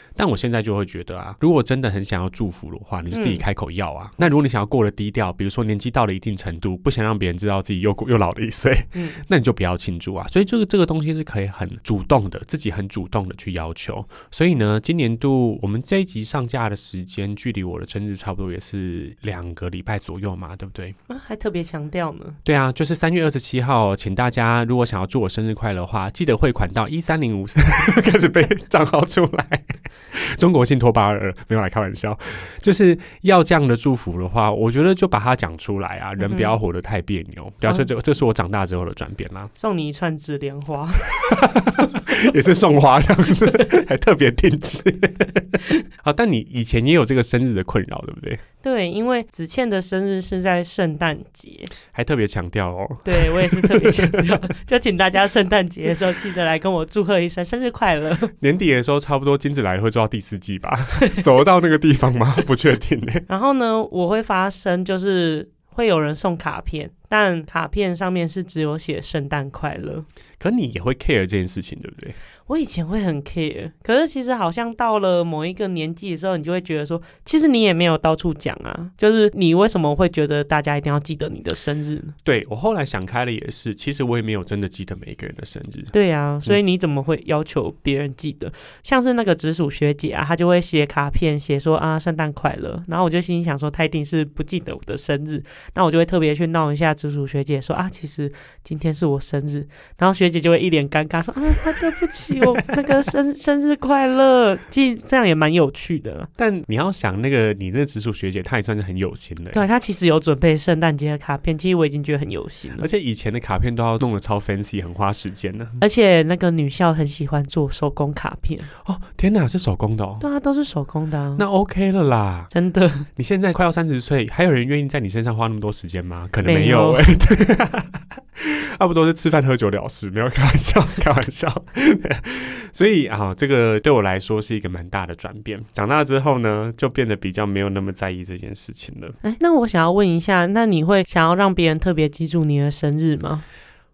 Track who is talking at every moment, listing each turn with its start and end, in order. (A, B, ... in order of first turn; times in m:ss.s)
0:00.2-0:21.0 A
0:03.1-0:03.4 B
0:08.9-0:09.2 B
0:21.1-0:22.4 B
0:22.4-0:39.5 A
0:36.2-0:36.5 B
0:39.6-0:41.0 B
0:41.2-0:48.4 A
0:48.6-0:51.7 B
0:51.9-0:54.2 A
0:53.0-0:58.3 B
0:58.4-1:03.2 A
1:03.3-1:10.0 B
1:10.4-1:12.1 A
1:12.5-1:22.1 B
1:22.2-1:25.9 A
1:25.9-1:46.3 B
1:46.4-1:49.6 A
1:49.5-1:52.9 B
1:52.8-1:55.8 A
1:55.8-1:58.7 B
1:58.8-2:00.2 A
2:00.2-2:01.4 B
2:01.4-2:02.5 A
2:02.5-2:03.0 B
2:03.2-2:19.2 A
2:06.4-2:07.0 B
2:19.2-2:23.4 B